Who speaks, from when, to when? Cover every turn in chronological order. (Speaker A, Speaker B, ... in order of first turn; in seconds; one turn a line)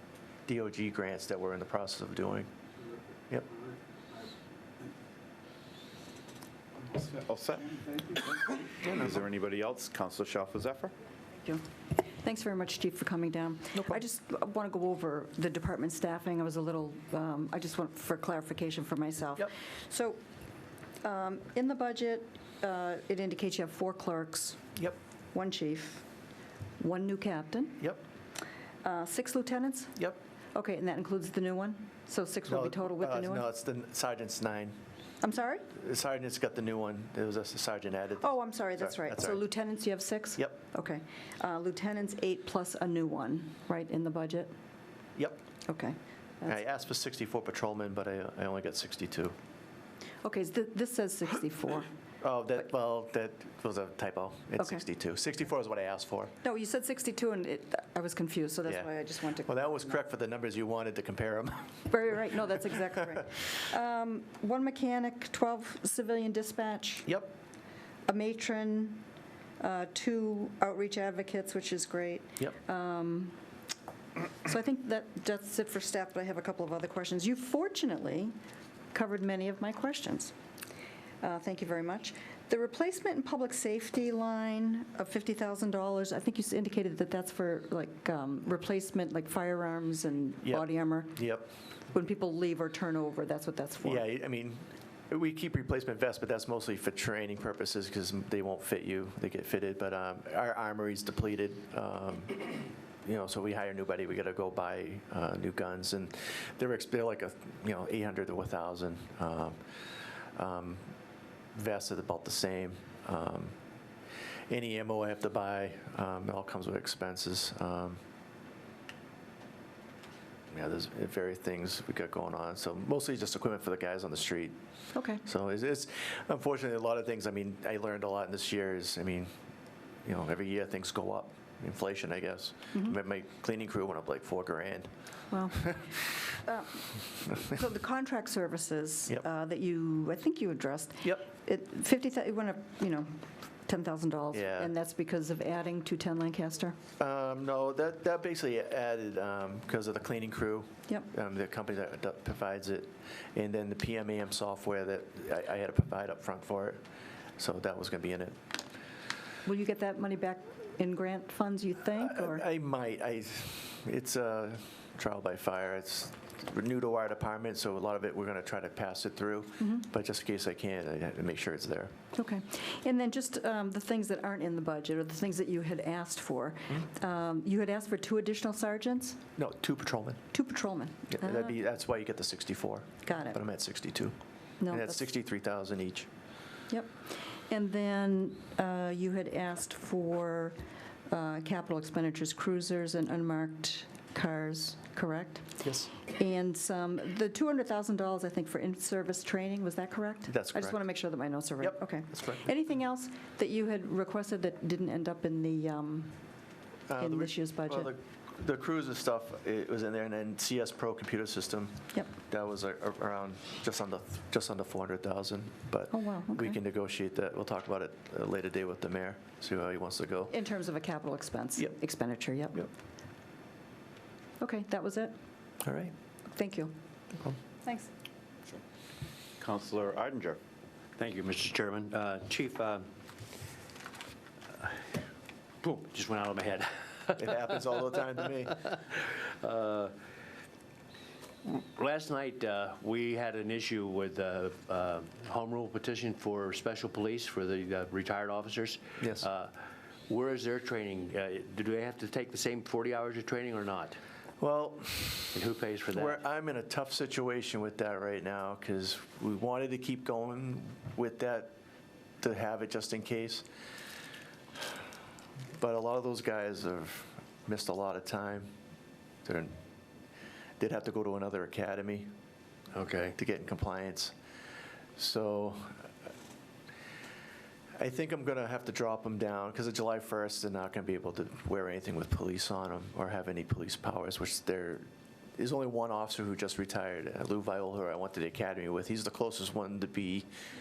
Speaker A: 0.5-2.5
Speaker B: 6.9-10.9
Speaker A: 8.8-9.2
Speaker C: 11.4-20.2
Speaker C: 21.0-24.6
Speaker C: 25.3-26.1
Speaker C: 26.8-27.8
Speaker C: 28.8-29.9
Speaker C: 30.5-33.5
Speaker A: 32.5-34.8
Speaker C: 35.2-35.7
Speaker A: 35.7-39.5
Speaker C: 38.2-44.5
Speaker C: 45.7-46.6
Speaker A: 46.5-49.3
Speaker C: 50.2-51.9
Speaker A: 52.2-56.3
Speaker C: 56.4-60.0
Speaker A: 58.6-61.8
Speaker C: 61.9-67.1
Speaker A: 67.1-67.3
Speaker C: 68.1-69.0
Speaker C: 69.6-73.4
Speaker C: 74.4-78.3
Speaker C: 78.9-80.3
Speaker C: 81.2-91.2
Speaker A: 90.4-91.5
Speaker C: 91.9-94.0
Speaker A: 93.8-102.5
Speaker A: 103.0-109.6
Speaker A: 110.3-110.9
Speaker A: 111.5-113.5
Speaker A: 114.5-118.0
Speaker A: 120.5-124.5
Speaker C: 124.9-125.2
Speaker A: 125.2-129.3
Speaker A: 130.0-134.9
Speaker C: 135.3-135.8
Speaker C: 136.4-143.1
Speaker C: 143.7-146.8
Speaker A: 144.3-144.7
Speaker A: 147.0-156.8
Speaker A: 157.4-158.4
Speaker C: 159.4-162.5
Speaker A: 161.9-171.9
Speaker C: 169.6-169.8
Speaker C: 172.1-179.2
Speaker A: 179.4-180.2
Speaker C: 180.3-181.5
Speaker A: 181.1-184.1
Speaker C: 183.0-183.4
Speaker C: 184.6-185.0
Speaker A: 184.7-186.1
Speaker C: 186.7-186.9
Speaker C: 187.5-190.6
Speaker C: 191.1-206.2
Speaker A: 195.6-195.9
Speaker A: 200.3-200.8
Speaker A: 201.6-202.5
Speaker A: 206.9-220.3
Speaker C: 207.0-207.9
Speaker C: 215.9-216.6
Speaker C: 220.3-222.7
Speaker C: 224.4-225.1
Speaker A: 225.6-225.9
Speaker C: 226.3-226.8
Speaker C: 227.6-227.9
Speaker B: 229.4-230.4
Speaker D: 231.0-232.8
Speaker D: 234.5-234.8
Speaker D: 235.6-237.1
Speaker A: 237.2-238.6
Speaker D: 239.2-239.9
Speaker D: 241.4-249.5
Speaker A: 249.0-249.2
Speaker D: 250.1-254.0
Speaker A: 254.4-255.4
Speaker D: 255.3-256.2
Speaker A: 255.9-261.5
Speaker A: 262.2-263.4
Speaker A: 265.6-268.5
Speaker A: 269.2-269.6
Speaker A: 270.6-272.1
Speaker D: 272.7-273.1
Speaker A: 273.1-274.1
Speaker A: 275.0-275.9
Speaker A: 277.8-284.9
Speaker A: 285.4-290.3